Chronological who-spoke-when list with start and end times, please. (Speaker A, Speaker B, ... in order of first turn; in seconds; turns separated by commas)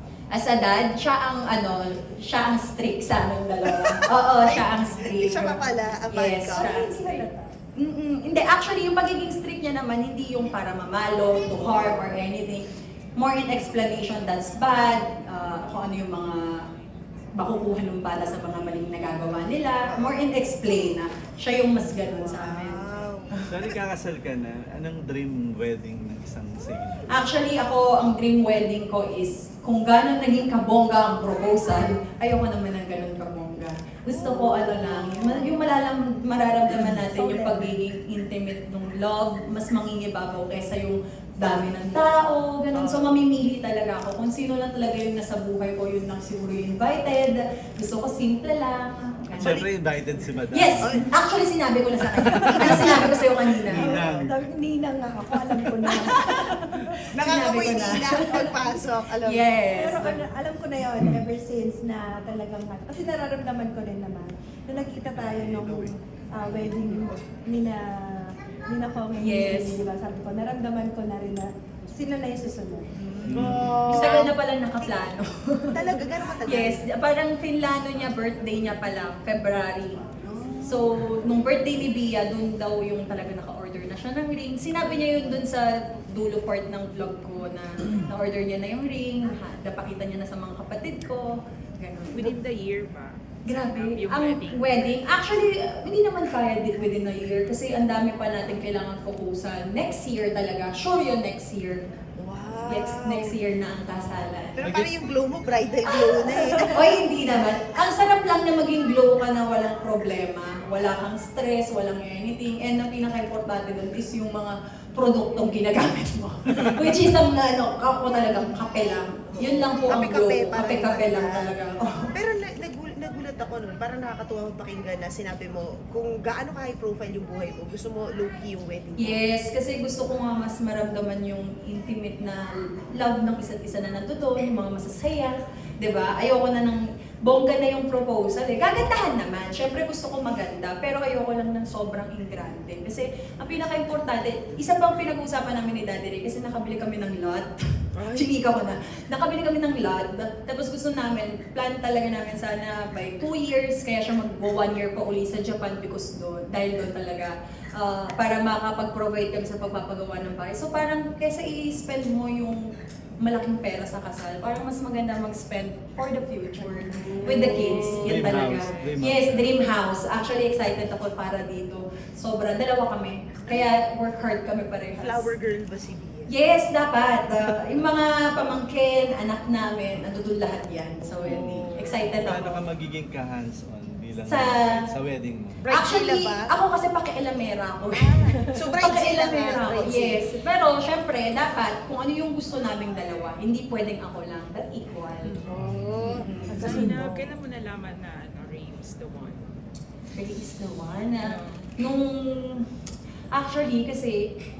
Speaker A: 0.3-7.2, Speaker B: 3.6-6.7, Speaker C: 6.5-7.5, Speaker A: 7.8-12.7, Speaker A: 13.2-16.4, Speaker A: 17.4-22.9, Speaker B: 19.9-20.1, Speaker B: 22.4-23.6, Speaker D: 23.5-27.0, Speaker A: 27.1-49.6, Speaker C: 37.1-37.7, Speaker B: 42.7-43.1, Speaker B: 49.4-49.7, Speaker D: 49.4-51.0, Speaker A: 50.5-53.9, Speaker D: 52.4-53.0, Speaker C: 52.6-53.2, Speaker B: 52.6-53.0, Speaker D: 53.7-54.4, Speaker C: 53.7-56.6, Speaker B: 57.1-59.5, Speaker A: 57.2-58.6, Speaker A: 59.2-60.2, Speaker C: 59.7-72.9, Speaker D: 65.2-65.9, Speaker A: 69.2-69.8, Speaker B: 73.0-74.3, Speaker D: 73.3-73.7, Speaker A: 73.9-80.1, Speaker B: 75.7-76.8, Speaker B: 80.2-80.8, Speaker A: 80.6-92.3, Speaker E: 92.1-94.6, Speaker A: 93.4-101.8, Speaker B: 102.2-103.3, Speaker A: 102.7-104.6, Speaker B: 104.6-107.0, Speaker D: 104.6-104.9, Speaker A: 105.9-122.1, Speaker B: 119.3-121.5, Speaker B: 122.1-129.2, Speaker A: 129.0-132.4, Speaker A: 132.9-147.5, Speaker B: 148.0-148.3, Speaker A: 148.0-162.6, Speaker A: 163.2-175.3, Speaker D: 168.0-169.5, Speaker E: 168.1-169.0, Speaker B: 175.0-176.3, Speaker A: 176.3-182.6, Speaker B: 181.3-181.8, Speaker D: 182.2-185.6, Speaker A: 184.2-184.7, Speaker B: 185.6-186.5, Speaker A: 185.7-195.3, Speaker B: 187.9-190.2, Speaker E: 195.2-195.5, Speaker B: 195.5-196.3, Speaker A: 196.3-197.1, Speaker E: 196.5-199.4, Speaker A: 200.1-202.6, Speaker E: 201.3-201.6, Speaker A: 203.3-204.2